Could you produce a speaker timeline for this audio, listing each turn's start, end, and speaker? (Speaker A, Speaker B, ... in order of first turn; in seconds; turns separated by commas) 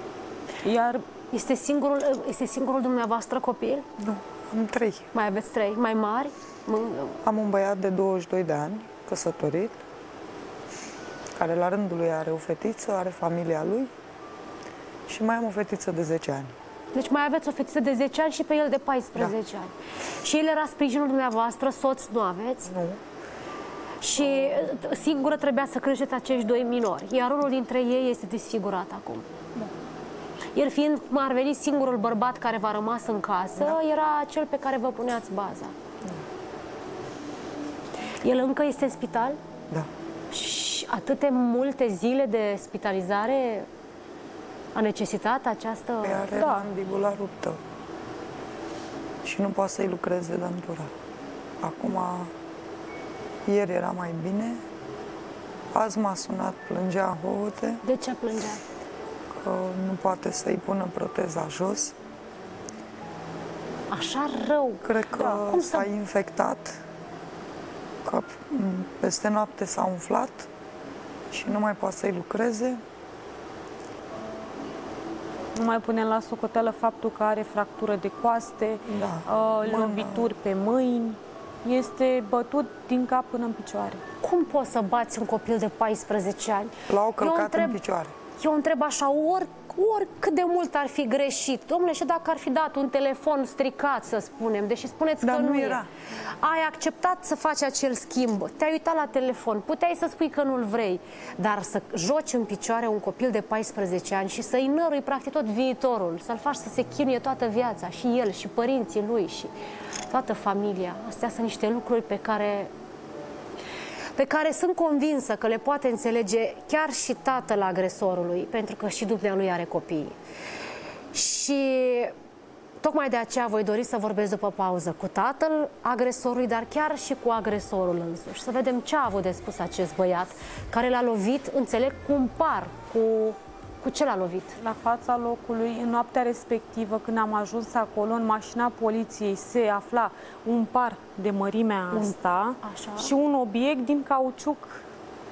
Speaker A: 0.6-1.0, Speaker B: 1.3-3.8, Speaker C: 4.0-5.1, Speaker B: 5.1-7.2, Speaker C: 7.2-9.8, Speaker C: 11.3-13.9, Speaker C: 15.1-16.5, Speaker B: 16.9-22.7, Speaker C: 22.7-23.0, Speaker B: 24.0-29.3, Speaker B: 30.5-35.7, Speaker B: 38.2-39.4, Speaker B: 40.3-43.7, Speaker B: 44.7-46.3, Speaker C: 46.0-47.6, Speaker A: 46.3-46.7, Speaker C: 49.2-50.9, Speaker C: 51.6-52.3, Speaker C: 53.5-54.6, Speaker C: 55.7-57.8, Speaker B: 57.8-58.6, Speaker C: 59.3-62.0, Speaker B: 63.9-65.9, Speaker C: 64.8-66.8, Speaker C: 68.0-70.5, Speaker C: 71.3-72.8, Speaker A: 75.5-84.0, Speaker C: 78.9-80.3, Speaker B: 84.2-87.8, Speaker C: 86.9-88.1, Speaker B: 88.4-95.8, Speaker C: 95.2-95.9, Speaker B: 96.4-109.5, Speaker B: 110.1-112.7, Speaker B: 114.2-120.1, Speaker B: 121.1-122.1, Speaker B: 122.8-134.6, Speaker A: 134.6-144.8, Speaker B: 141.9-143.1